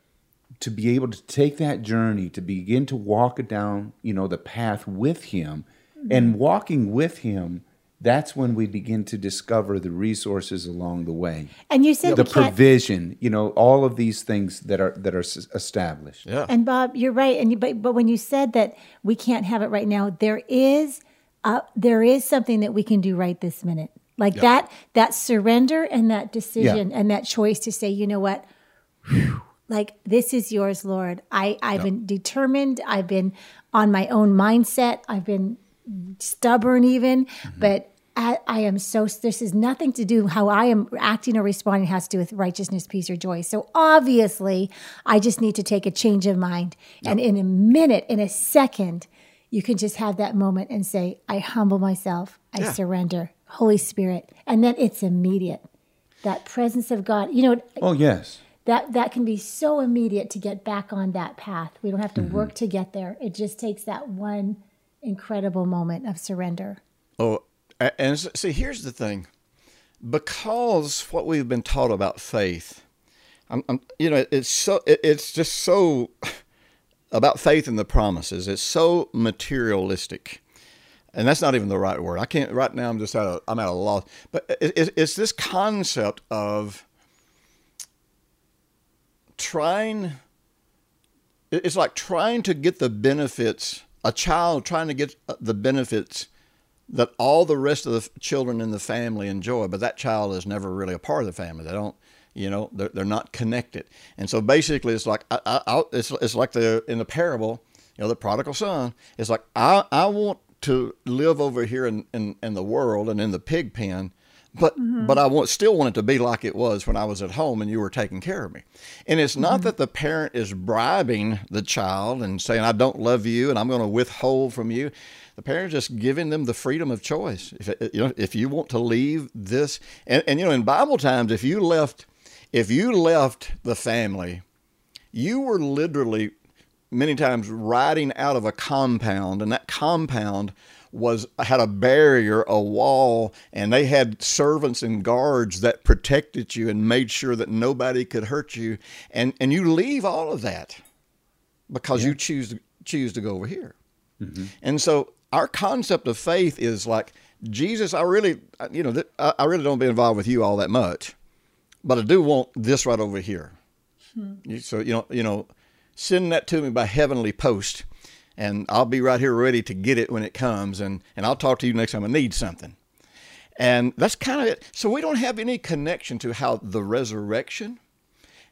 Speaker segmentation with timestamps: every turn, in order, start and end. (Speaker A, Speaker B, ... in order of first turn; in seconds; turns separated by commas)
Speaker A: 0.6-11.5, Speaker B: 6.0-6.3, Speaker B: 11.7-12.5, Speaker A: 12.1-16.2, Speaker C: 16.3-16.5, Speaker B: 16.5-28.4, Speaker B: 29.1-55.6, Speaker B: 56.2-57.8, Speaker A: 57.8-58.4, Speaker B: 58.6-66.8, Speaker A: 62.1-62.5, Speaker C: 67.2-69.3, Speaker C: 70.0-72.8, Speaker C: 73.5-76.4, Speaker C: 77.1-80.4, Speaker C: 81.1-86.8, Speaker C: 89.4-90.2, Speaker C: 91.5-96.3, Speaker C: 96.9-134.4, Speaker B: 114.8-115.2, Speaker B: 119.4-119.7, Speaker C: 135.1-136.3, Speaker C: 136.9-150.8, Speaker C: 151.7-153.8, Speaker A: 154.2-154.5, Speaker C: 154.6-161.1, Speaker C: 161.8-163.6, Speaker C: 164.4-167.8, Speaker C: 168.4-172.8, Speaker C: 173.6-177.8